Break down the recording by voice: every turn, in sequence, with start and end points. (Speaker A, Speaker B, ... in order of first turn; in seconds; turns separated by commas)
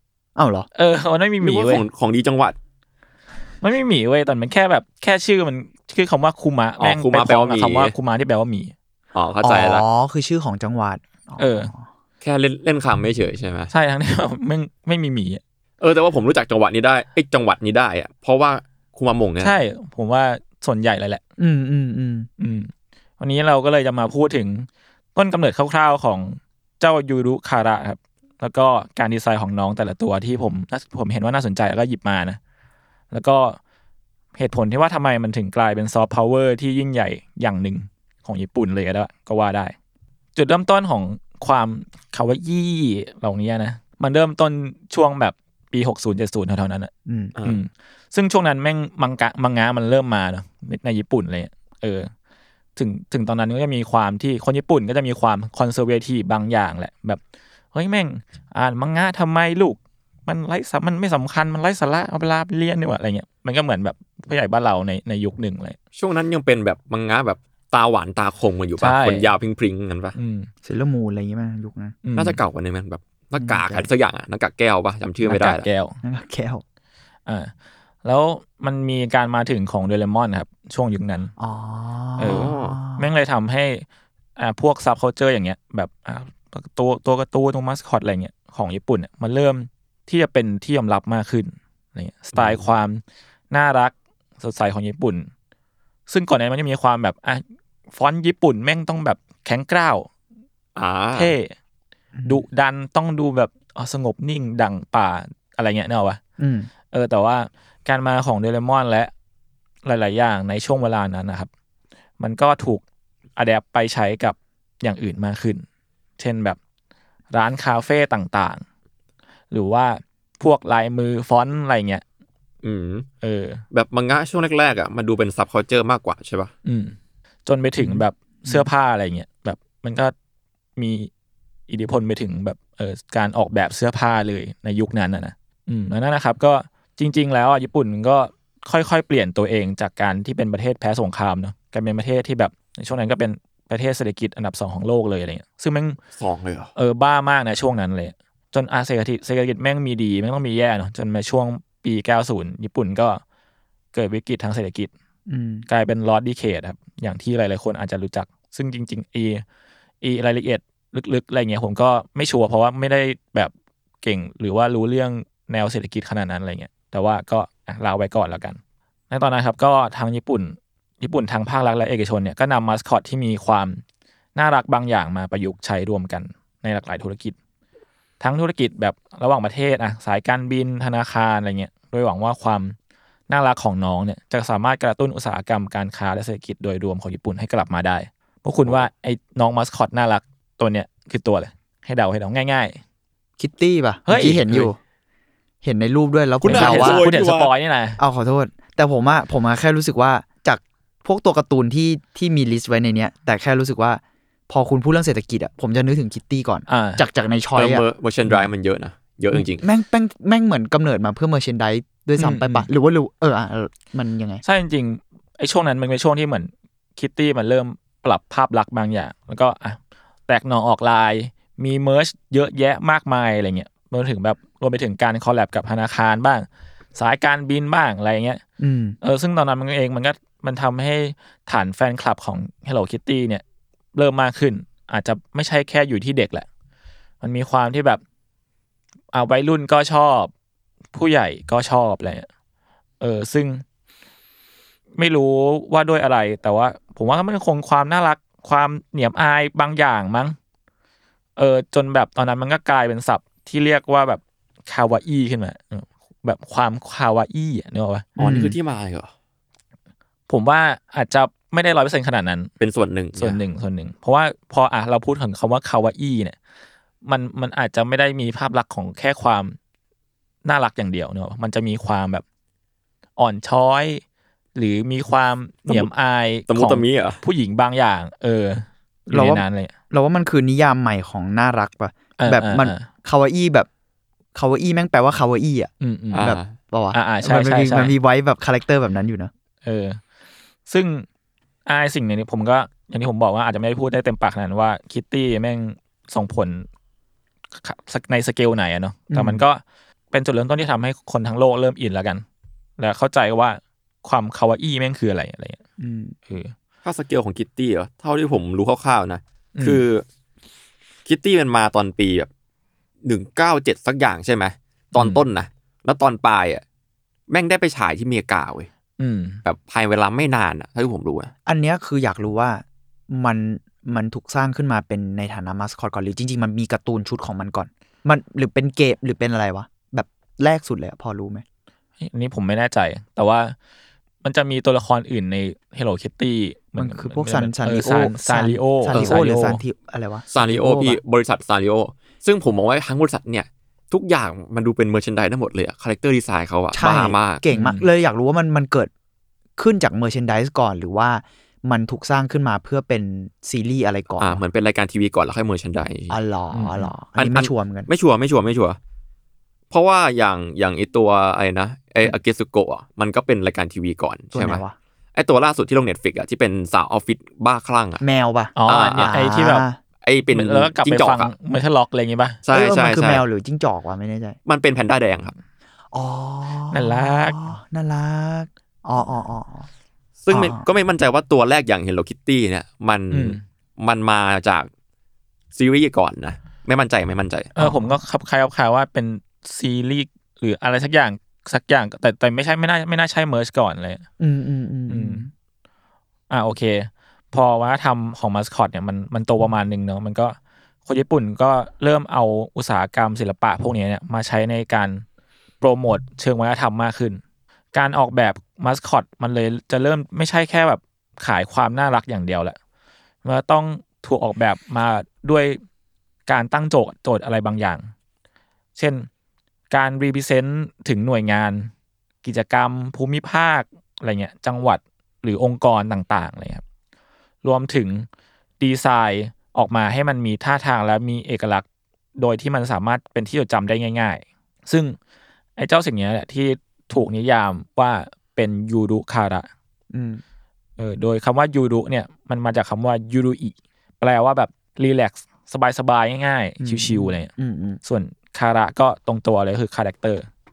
Speaker A: 0.4-0.7, Speaker B: 0.8-1.9, Speaker C: 1.4-2.6, Speaker B: 3.6-8.7, Speaker C: 6.8-7.9, Speaker C: 9.1-9.8, Speaker A: 9.4-11.8, Speaker B: 11.4-11.7, Speaker C: 12.2-13.7, Speaker B: 13.7-15.4, Speaker C: 15.8-19.5, Speaker B: 19.4-21.2, Speaker A: 21.4-22.3, Speaker B: 22.4-32.4, Speaker B: 33.1-33.6, Speaker B: 34.4-39.8, Speaker B: 40.4-46.9, Speaker A: 47.1-47.3, Speaker B: 47.4-52.1, Speaker B: 52.8-57.2, Speaker B: 57.7-65.8, Speaker C: 66.0-70.2, Speaker B: 68.8-69.3, Speaker B: 70.2-70.5, Speaker A: 70.6-72.0, Speaker B: 72.0-72.4, Speaker C: 72.2-75.7, Speaker A: 73.4-73.9, Speaker B: 75.2-76.0, Speaker A: 76.0-76.6, Speaker B: 77.3-77.5, Speaker B: 78.0-81.3, Speaker A: 81.4-83.0, Speaker B: 82.2-83.8, Speaker C: 82.2-82.8, Speaker B: 84.4-95.3, Speaker C: 92.3-92.6, Speaker B: 96.1-100.1, Speaker C: 100.8-101.3, Speaker B: 101.2-101.5, Speaker A: 102.2-102.4, Speaker B: 102.2-106.2, Speaker A: 106.4-106.7, Speaker B: 106.9-109.1, Speaker B: 109.8-111.5, Speaker B: 112.2-112.8, Speaker B: 113.4-115.7, Speaker B: 116.2-116.6, Speaker B: 117.3-118.6, Speaker B: 119.5-122.0, Speaker C: 122.6-123.1, Speaker B: 123.2-123.6, Speaker C: 123.7-126.5, Speaker B: 126.7-127.0, Speaker B: 127.5-130.1, Speaker A: 127.8-128.7, Speaker B: 130.8-131.1, Speaker B: 131.7-146.0, Speaker C: 146.2-146.7, Speaker B: 146.8-153.2, Speaker B: 153.9-154.9, Speaker A: 155.3-155.7, Speaker B: 155.7-159.4, Speaker B: 160.0-168.6, Speaker B: 169.1-173.8, Speaker B: 174.3-177.3, Speaker B: 178.2-182.8, Speaker B: 183.3-192.8, Speaker A: 193.4-194.8, Speaker B: 194.1-194.7, Speaker A: 195.6-197.1, Speaker C: 196.4-197.5, Speaker B: 196.4-198.0, Speaker A: 198.0-207.8, Speaker B: 206.7-207.0, Speaker C: 207.6-209.7, Speaker A: 209.3-214.4, Speaker B: 212.2-212.7, Speaker B: 214.4-228.4, Speaker A: 228.6-229.0, Speaker B: 229.0-233.4, Speaker B: 233.9-236.5, Speaker B: 237.2-238.0, Speaker B: 239.1-240.3, Speaker B: 240.9-242.3, Speaker B: 243.0-243.6, Speaker B: 245.0-250.4, Speaker B: 251.4-258.1, Speaker A: 258.2-258.6, Speaker C: 258.2-259.1, Speaker B: 260.3-262.5, Speaker C: 262.6-263.4, Speaker B: 263.2-266.4, Speaker B: 267.1-269.6, Speaker B: 270.4-272.2, Speaker B: 273.2-274.0, Speaker B: 274.6-279.7, Speaker C: 276.5-277.2, Speaker A: 279.1-283.7, Speaker B: 282.2-282.9, Speaker A: 284.3-289.3, Speaker B: 285.8-286.3, Speaker C: 286.1-286.5, Speaker B: 286.9-287.9, Speaker B: 289.6-290.0, Speaker B: 290.7-291.1, Speaker B: 291.7-296.7, Speaker B: 297.6-299.6, Speaker A: 299.1-299.4, Speaker B: 300.1-302.2, Speaker B: 302.8-305.6, Speaker A: 305.8-306.2, Speaker B: 306.3-306.5, Speaker C: 306.8-310.0, Speaker B: 309.6-309.8, Speaker C: 311.1-312.3, Speaker C: 313.0-316.6, Speaker B: 315.0-315.2, Speaker C: 317.3-318.7, Speaker B: 319.0-319.4, Speaker C: 319.4-321.3, Speaker A: 321.5-331.4, Speaker B: 332.0-333.6, Speaker B: 334.2-339.6, Speaker A: 336.8-341.0, Speaker C: 338.9-339.2, Speaker C: 340.3-347.4, Speaker A: 346.7-348.9, Speaker B: 347.5-347.9, Speaker A: 349.6-354.4, Speaker C: 354.2-356.2, Speaker A: 356.1-357.9, Speaker B: 356.5-356.9, Speaker C: 357.2-358.8, Speaker C: 359.7-364.6, Speaker A: 364.3-364.8, Speaker C: 365.1-368.0, Speaker A: 368.0-369.8, Speaker B: 368.6-369.7, Speaker C: 368.7-369.2, Speaker C: 370.0-371.3, Speaker B: 370.3-372.4, Speaker C: 372.4-373.2, Speaker A: 372.5-374.4, Speaker C: 374.5-375.4, Speaker A: 375.9-379.7, Speaker B: 376.7-377.4, Speaker C: 380.2-384.7, Speaker A: 380.3-380.6, Speaker B: 383.1-383.4, Speaker C: 385.5-387.5, Speaker B: 387.6-394.0, Speaker A: 387.6-388.0, Speaker A: 394.2-395.3, Speaker B: 394.9-395.3, Speaker B: 396.3-405.0, Speaker B: 405.6-407.2, Speaker B: 407.7-412.6, Speaker B: 413.2-415.6, Speaker B: 416.3-417.9, Speaker B: 418.8-419.1, Speaker B: 419.7-421.7, Speaker B: 422.2-426.6, Speaker B: 427.4-428.1, Speaker B: 428.6-431.6, Speaker B: 432.2-434.9, Speaker B: 435.6-439.5, Speaker A: 439.9-440.2, Speaker B: 440.8-447.3, Speaker A: 446.6-447.8, Speaker B: 447.8-450.3